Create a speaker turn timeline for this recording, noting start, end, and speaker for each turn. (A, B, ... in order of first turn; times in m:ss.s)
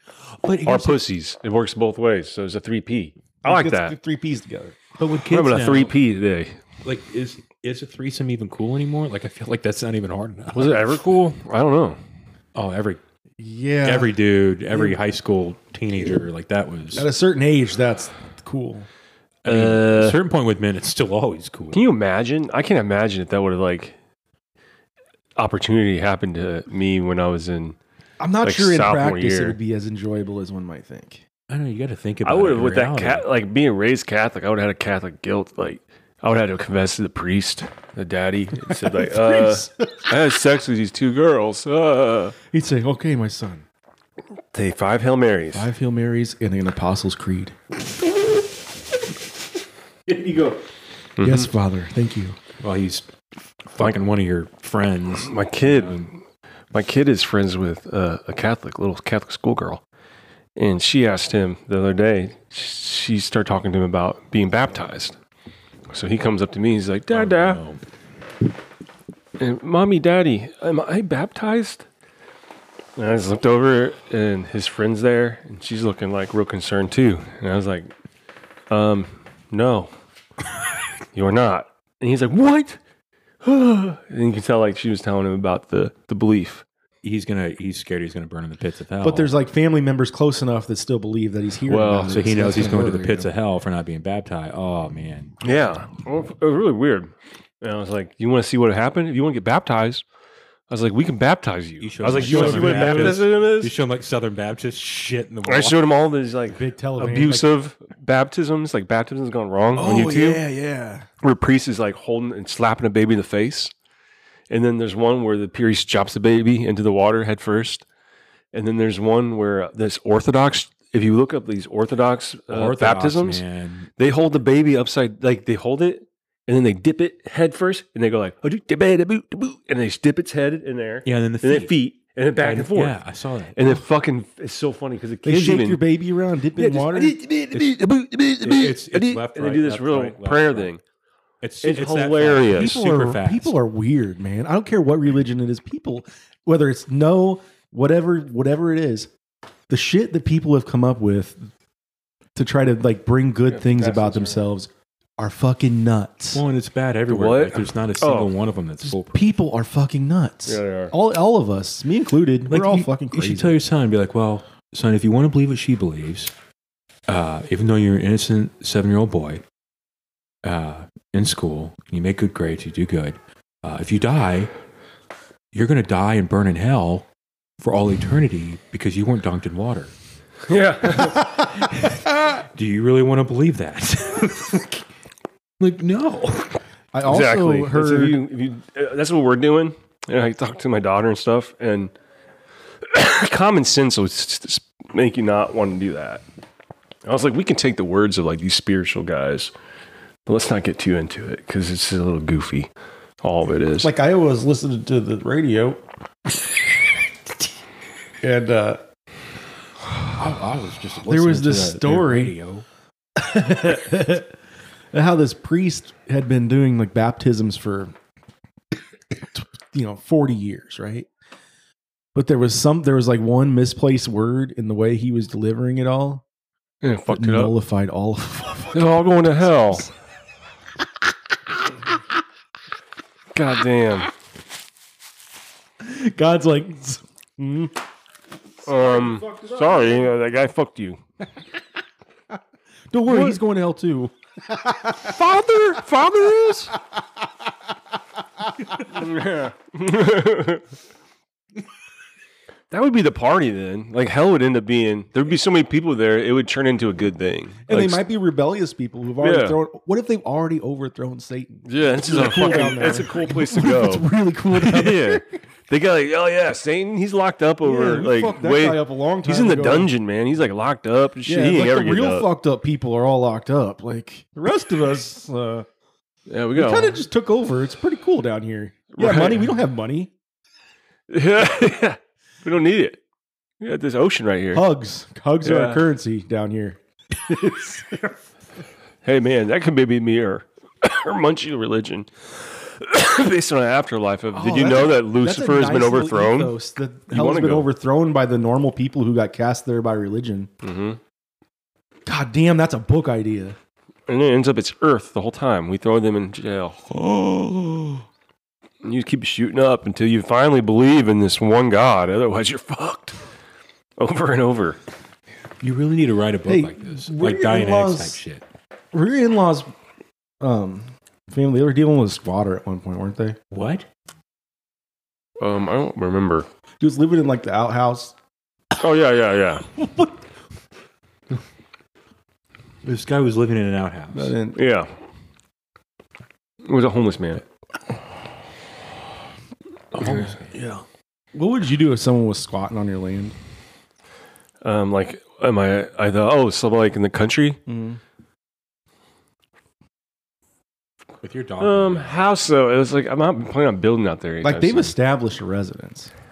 0:00.2-0:01.0 A
0:00.6-0:03.9 B
0:03.4-0:04.8 C
0:05.0-0:06.0 A
0:05.3-0:06.6 B
0:06.8-0:11.1 A
0:10.5-0:12.0 B
0:12.5-0:13.0 A
0:13.4-0:14.1 C
0:13.8-0:17.1 A
0:14.7-0:15.0 C
0:16.9-0:18.9 C
0:19.4-0:20.2 B
0:19.4-0:21.8 A
0:21.7-0:24.0 B
0:25.4-0:27.8 B
0:28.2-0:31.2 C
0:28.4-0:29.6 B
0:31.5-0:33.2 A
0:32.2-0:42.4 B
0:38.6-0:40.1 C
0:42.5-0:43.6 C
0:44.5-0:45.7 B
0:45.5-0:47.6 C
0:50.1-0:50.5 A
0:51.2-0:51.5 B
0:51.2-0:52.4 C
0:52.6-0:53.1 A
0:53.7-0:56.1 A
0:55.2-0:56.2 B
0:56.7-0:59.8 B
1:00.6-1:05.2 B
1:05.9-1:07.6 B
1:07.1-1:07.8 A
1:09.4-1:11.8 B
1:13.0-1:17.9 B
1:18.7-1:19.9 B
1:21.1-1:22.8 B
1:23.4-1:26.6 B
1:27.0-1:29.3 A
1:29.0-1:33.3 C
1:31.7-1:32.3 B
1:32.1-1:35.3 A
1:35.4-1:37.1 B
1:37.6-1:40.0 B
1:40.7-1:43.7 B
1:41.8-1:45.8 A
1:42.1-1:43.2 C
1:45.4-1:50.4 B
1:46.5-1:47.5 C
1:49.8-1:51.1 C
1:51.2-1:53.7 B
1:54.5-1:57.8 B
1:58.5-2:03.4 B
2:02.5-2:03.9 A
2:04.0-2:13.0 B
2:11.0-2:11.8 A
2:12.4-2:13.8 A
2:13.5-2:15.8 B
2:15.2-2:17.2 C
2:16.6-2:20.8 B
2:17.5-2:17.8 A
2:18.4-2:20.7 A
2:21.4-2:23.5 A
2:21.6-2:22.8 B
2:22.5-2:29.1 C
2:29.7-2:31.5 C
2:32.3-2:36.4 C
2:33.5-2:34.4 B
2:36.3-2:39.2 A
2:37.1-2:38.3 B
2:38.8-2:43.6 C
2:40.4-2:40.9 B
2:42.4-2:46.3 A
2:47.1-2:49.4 A
2:50.4-2:54.5 A
2:55.5-2:57.1 A
2:57.6-2:59.9 A
3:00.5-3:01.3 B
3:01.6-3:04.8 A
3:05.6-3:06.6 A
3:06.9-3:08.2 C
3:07.0-3:11.9 B
3:12.8-3:16.2 B
3:17.0-3:19.5 B
3:20.2-3:22.7 B
3:23.2-3:23.9 B
3:23.8-3:25.8 C
3:28.2-3:28.8 C
3:30.1-3:32.6 A
3:31.0-3:32.3 C
3:33.2-3:34.3 C
3:34.9-3:37.9 C
3:39.3-3:41.1 C
3:42.1-3:46.2 C
3:46.8-3:47.5 B
3:47.1-3:49.9 C
3:48.7-3:49.9 B
3:53.3-3:54.1 B
3:55.8-3:57.7 C
3:58.6-4:01.0 B
3:58.7-4:00.1 C
4:02.9-4:05.1 C
4:03.1-4:03.4 B
4:05.0-4:06.7 B
4:08.8-4:10.6 B
4:12.7-4:18.0 B
4:17.7-4:25.4 C
4:19.2-4:19.6 B
4:21.6-4:24.0 B
4:24.6-4:32.2 B
4:27.6-4:29.9 C
4:31.2-4:35.6 C
4:36.3-4:37.0 B
4:36.5-4:40.1 C
4:38.9-4:39.5 B
4:41.1-4:43.0 B
4:43.6-4:44.6 B
4:44.5-4:48.2 C
4:45.4-4:45.8 B
4:49.0-4:56.6 B
4:54.3-5:00.5 C
4:57.1-4:57.7 B
5:00.6-5:01.0 B
5:02.0-5:03.6 C
5:04.1-5:06.8 B
5:06.9-5:08.0 C
5:08.8-5:13.2 B
5:14.0-5:14.8 B
5:15.6-5:18.4 A
5:16.4-5:18.2 C
5:18.9-5:19.7 C
5:20.4-5:23.4 C
5:23.5-5:23.9 A
5:25.4-5:26.5 B
5:26.8-5:28.1 C
5:28.8-5:29.6 B
5:32.8-5:34.4 A
5:34.1-5:34.6 C
5:34.5-5:34.9 B
5:36.6-5:37.4 B
5:39.9-5:40.5 A
5:40.0-5:40.3 B
5:40.5-5:43.4 C
5:44.6-5:47.6 B
5:47.7-5:48.0 C
5:51.2-5:52.2 A
5:51.6-5:54.9 B
5:54.4-5:56.1 C